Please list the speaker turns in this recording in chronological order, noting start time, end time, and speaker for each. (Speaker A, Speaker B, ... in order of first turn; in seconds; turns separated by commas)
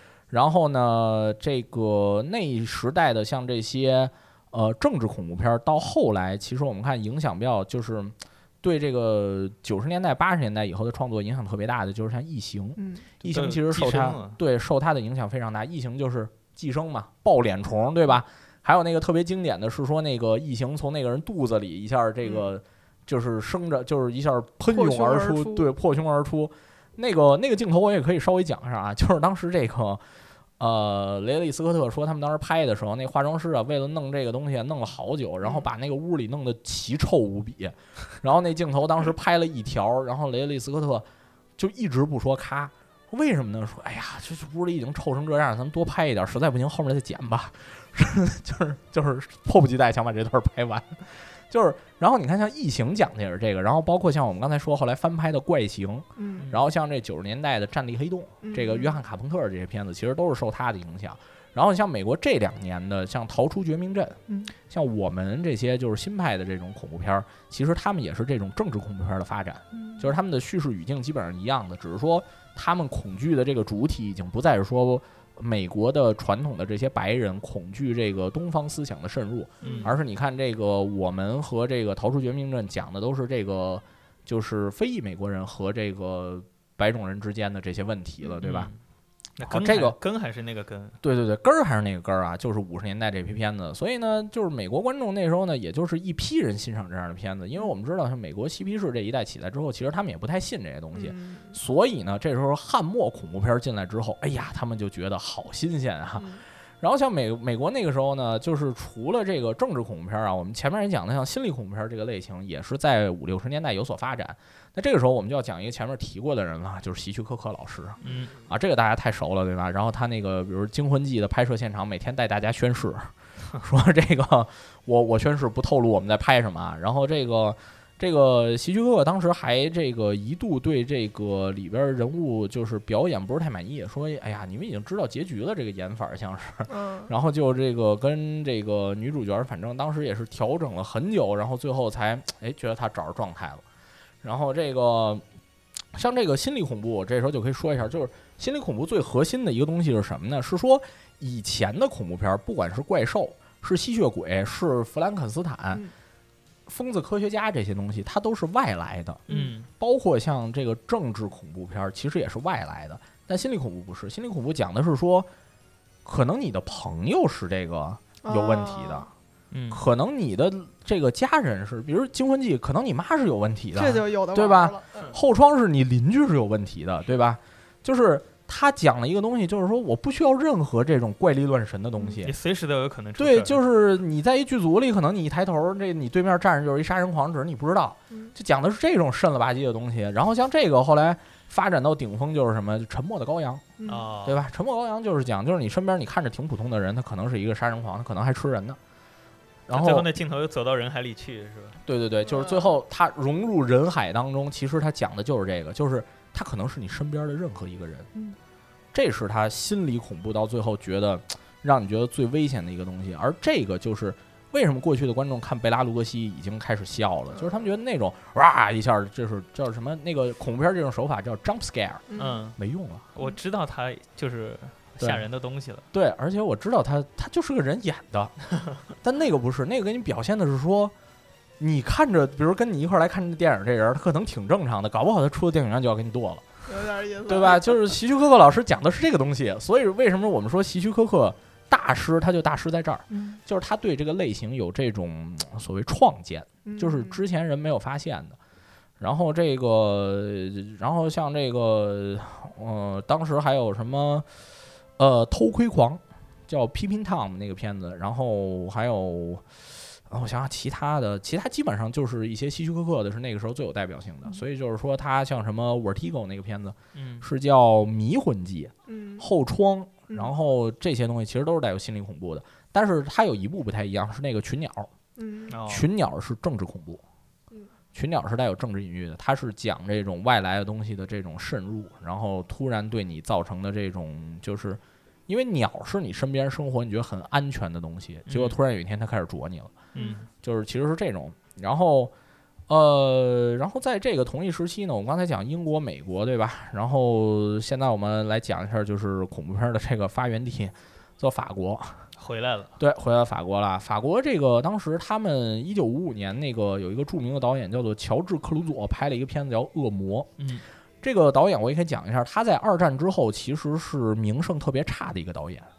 Speaker A: 0.3-30.0, Speaker B: 12.8-13.1, Speaker C: 13.2-14.4, Speaker B: 24.7-25.7, Speaker A: 30.6-41.1, Speaker A: 41.6-88.7, Speaker B: 56.2-56.5, Speaker B: 58.4-59.0, Speaker B: 69.7-70.1, Speaker C: 79.6-79.9, Speaker B: 79.6-79.9, Speaker C: 88.4-88.8, Speaker C: 89.4-91.0, Speaker A: 89.4-90.0, Speaker A: 91.0-143.6, Speaker B: 100.9-101.6, Speaker B: 106.2-106.4, Speaker C: 118.0-118.3, Speaker B: 136.7-137.1, Speaker A: 144.2-145.2, Speaker A: 145.9-155.8, Speaker A: 156.7-159.2, Speaker C: 159.3-159.7, Speaker B: 159.3-159.6, Speaker A: 159.8-165.3, Speaker A: 166.1-169.1, Speaker B: 168.2-169.1, Speaker C: 169.5-169.8, Speaker A: 169.7-182.3, Speaker B: 173.8-175.2, Speaker C: 182.2-183.6, Speaker A: 183.2-193.7, Speaker B: 193.8-194.1, Speaker C: 193.9-194.4, Speaker A: 194.3-198.8, Speaker A: 199.7-200.1, Speaker C: 199.7-201.8, Speaker A: 201.8-208.1, Speaker B: 202.2-202.7, Speaker A: 208.9-222.1, Speaker B: 222.1-222.4, Speaker C: 222.2-222.6, Speaker A: 222.6-223.1, Speaker C: 223.2-225.8, Speaker A: 225.9-230.9, Speaker A: 231.6-236.4, Speaker B: 236.7-237.8, Speaker A: 237.3-248.4, Speaker B: 243.1-243.4, Speaker B: 246.7-247.2, Speaker A: 249.0-254.3, Speaker A: 255.0-259.5, Speaker A: 260.1-274.9, Speaker C: 266.9-267.2, Speaker B: 268.9-269.3, Speaker B: 275.2-275.6, Speaker C: 275.5-275.9, Speaker A: 275.7-277.0, Speaker A: 277.9-289.7, Speaker C: 288.3-288.6, Speaker C: 289.9-290.3, Speaker B: 289.9-290.2, Speaker A: 290.4-292.1, Speaker A: 292.7-302.1, Speaker C: 302.2-302.8, Speaker A: 302.8-310.3, Speaker C: 310.4-310.6, Speaker A: 311.0-315.7